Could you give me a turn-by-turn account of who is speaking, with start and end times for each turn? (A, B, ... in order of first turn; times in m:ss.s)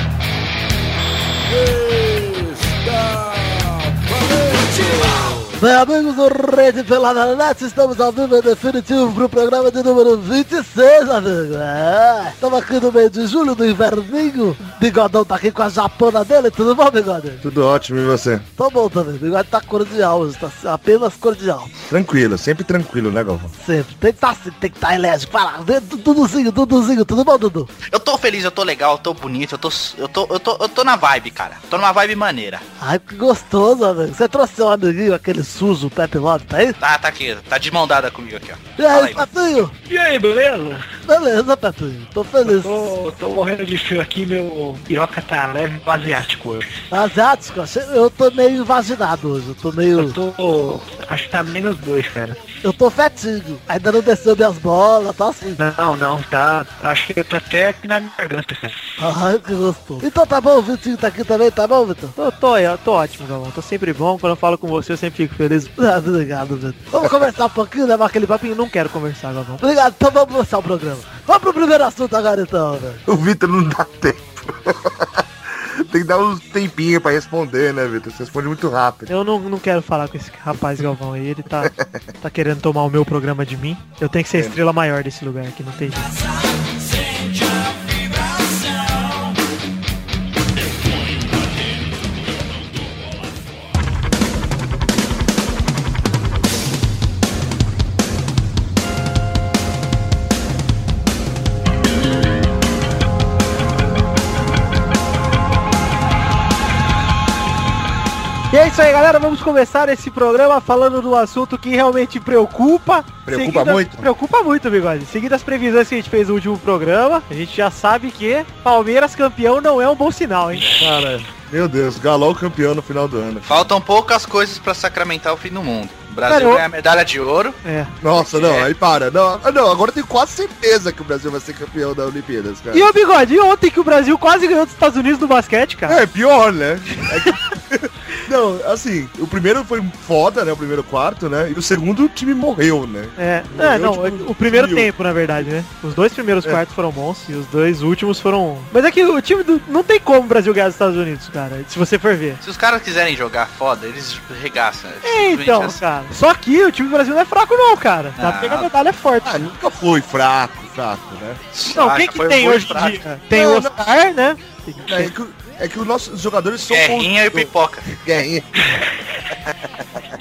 0:01.5-0:05.5 A
0:05.6-0:17.4 B
0:17.4-0:18.4 C
0:18.6-0:21.7 B
0:21.9-0:23.5 C
0:23.6-0:27.7 B
0:27.9-0:32.6 D
0:32.8-0:36.7 B
0:36.8-0:39.2 D
0:38.8-0:39.7 B
0:39.9-0:40.8 E
0:41.0-0:42.9 B
0:42.4-0:46.7 E
0:46.9-0:50.2 B
0:50.0-0:52.4 E
0:52.6-0:55.6 B
0:55.6-0:58.8 E
0:59.0-1:02.1 B
1:02.2-1:05.8 F
1:05.8-1:08.3 B
1:08.3-1:09.6 F
1:09.6-1:13.0 B
1:13.1-1:19.1 C
1:19.1-1:26.1 F
1:21.6-1:22.0 C
1:24.3-1:24.6 C
1:48.5-2:00.9 F
1:53.2-1:54.1 C
2:00.8-2:03.5 C
2:03.4-2:07.6 D
2:06.2-2:06.6 F
2:07.6-2:07.9 F
2:08.0-2:12.9 C
2:08.2-2:08.7 D
2:12.7-2:16.0 F
2:15.8-2:24.9 C
2:23.2-2:32.4 F
2:32.4-2:35.8 D
2:35.0-2:39.5 F
2:38.2-2:38.7 D
2:39.2-2:41.4 C
2:41.5-2:43.0 D
2:41.7-2:45.1 F
2:43.3-2:43.8 C
2:44.8-2:47.5 C
2:46.7-2:47.9 D
2:48.0-2:48.5 C